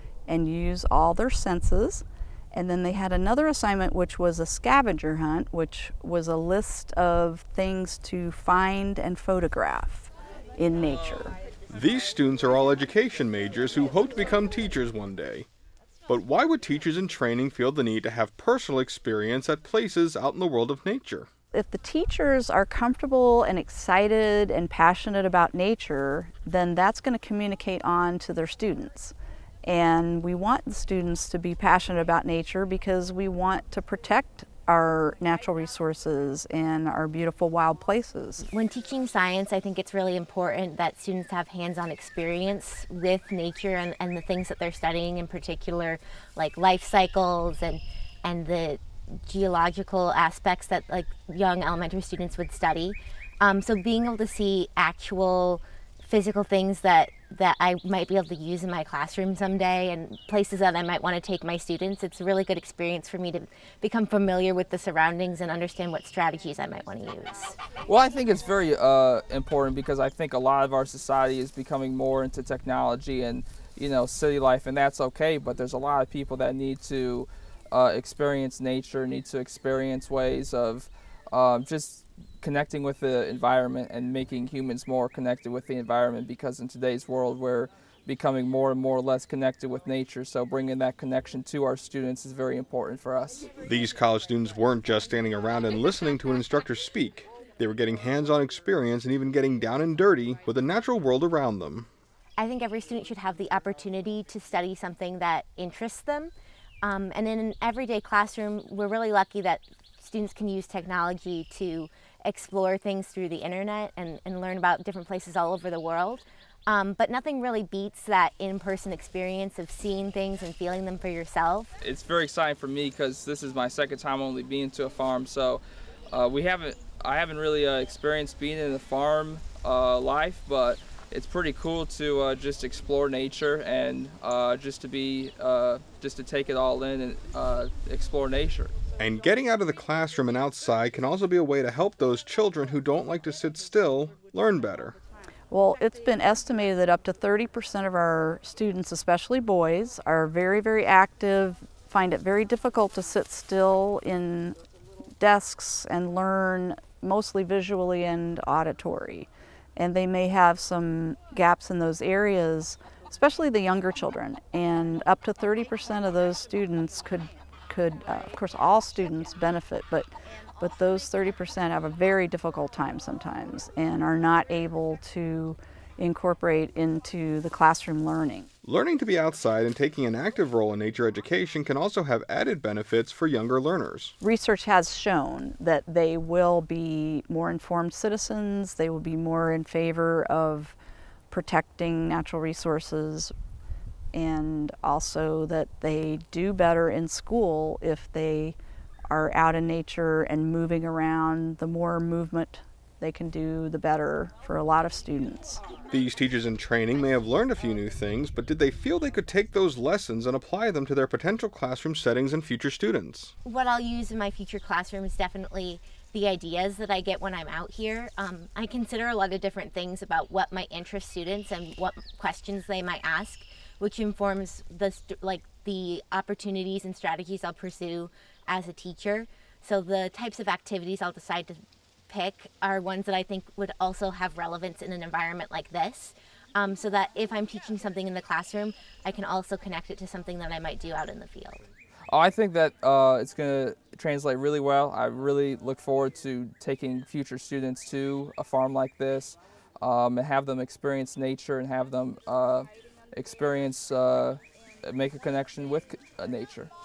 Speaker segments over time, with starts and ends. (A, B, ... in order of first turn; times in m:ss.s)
0:00.3-0:11.4 A
0:11.7-0:15.5 B
0:16.1-0:21.3 B
0:21.5-0:38.4 A
0:38.5-1:07.6 C
1:07.9-1:33.5 D
1:33.6-1:41.9 B
1:42.4-1:46.3 C
1:46.8-2:01.7 C
2:01.8-2:18.7 D
2:19.0-2:25.0 B
2:25.5-2:34.6 A
2:35.2-2:58.5 A
2:58.6-3:04.1 B
3:04.2-3:10.8 A
3:11.3-3:13.3 A
3:14.1-3:18.6 A
3:19.1-3:25.6 A
3:25.9-3:33.3 B
3:33.4-4:01.6 C
4:02.1-4:16.7 D